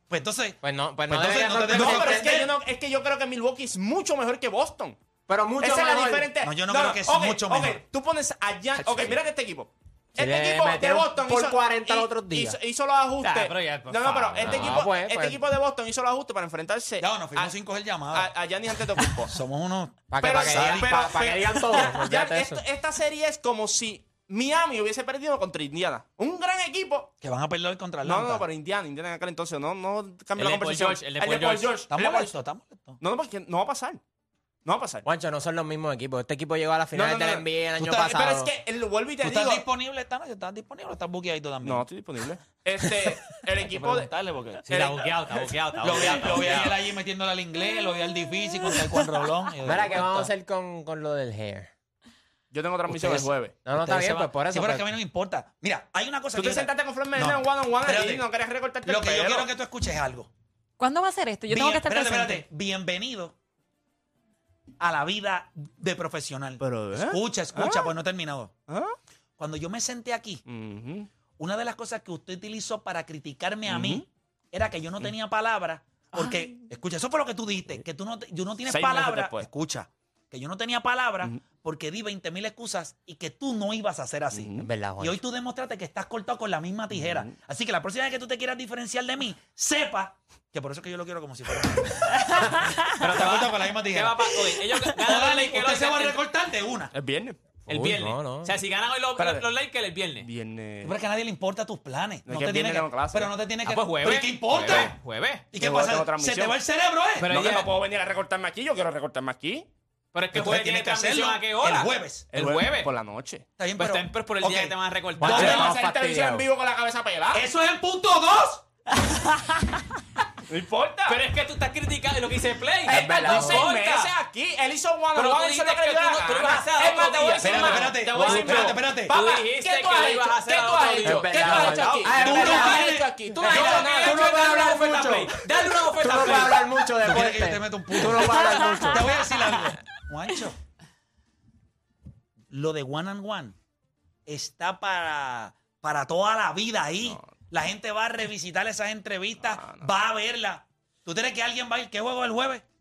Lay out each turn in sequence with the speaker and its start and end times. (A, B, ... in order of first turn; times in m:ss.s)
0:00.1-0:02.6 A
0:00.6-0:02.4 B
0:01.7-0:05.0 C
0:05.3-0:06.3 B
0:05.6-0:17.5 C
0:06.4-0:07.8 A
0:08.8-0:09.2 A
0:10.2-0:12.6 B
0:13.2-0:14.8 D
0:14.4-0:15.4 B
0:17.0-0:18.3 A
0:18.1-0:19.4 C
0:19.3-0:21.1 A
0:20.1-0:22.6 B
0:20.2-0:27.1 C
0:27.2-0:28.5 A
0:28.0-0:32.3 C
0:30.4-0:31.8 D
0:31.9-0:33.0 A
0:33.0-0:34.0 C
0:34.6-0:35.1 C
0:35.0-0:38.5 B
0:36.9-0:39.6 C
0:37.8-0:38.2 A
0:39.2-0:41.9 A
0:41.6-0:44.1 C
0:42.8-0:44.7 A
0:44.7-0:46.6 C
0:44.7-0:46.8 D
0:45.8-0:50.1 A
0:49.6-0:51.7 B
0:52.5-0:53.6 C
0:52.9-0:54.9 B
0:53.8-0:58.3 A
0:56.4-0:59.5 C
0:58.8-1:00.3 A
1:00.8-1:02.4 E
1:01.5-1:03.4 A
1:04.8-1:08.5 A
1:06.6-1:07.9 C
1:08.7-1:09.0 C
1:09.4-1:10.4 A
1:10.5-1:11.1 C
1:11.4-1:36.9 A
1:13.7-1:14.0 C
1:16.2-1:16.5 E
1:18.7-1:19.5 C
1:24.3-1:24.7 C
1:24.6-1:25.2 B
1:27.0-1:27.3 C
1:32.6-1:32.9 E
1:33.0-1:36.2 D
1:36.9-1:37.4 C
1:37.7-1:40.3 D
1:37.7-1:38.5 B
1:39.2-1:39.5 C
1:40.2-1:41.0 C
1:40.8-1:45.0 A
1:42.3-1:43.3 C
1:43.7-1:45.5 D
1:44.5-1:44.9 C
1:45.5-1:47.3 A
1:45.6-1:46.6 C
1:47.2-1:47.8 D
1:47.3-1:49.7 C
1:50.1-1:52.9 D
1:50.3-1:52.3 A
1:52.3-1:53.5 C
1:53.6-1:55.8 A
1:53.8-1:55.7 D
1:55.2-1:56.5 B
1:55.2-1:57.4 C
1:57.3-1:58.6 A
2:00.5-2:01.2 C
2:01.1-2:04.1 D
2:02.9-2:14.3 C
2:02.9-2:03.6 B
2:05.2-2:12.8 D
2:07.4-2:09.1 A
2:11.0-2:15.2 B
2:11.4-2:15.3 A
2:13.4-2:16.9 D
2:15.8-2:19.1 B
2:17.0-2:20.6 A
2:18.6-2:19.0 E
2:22.5-2:23.6 A
2:24.3-2:32.6 A
2:29.4-2:29.9 C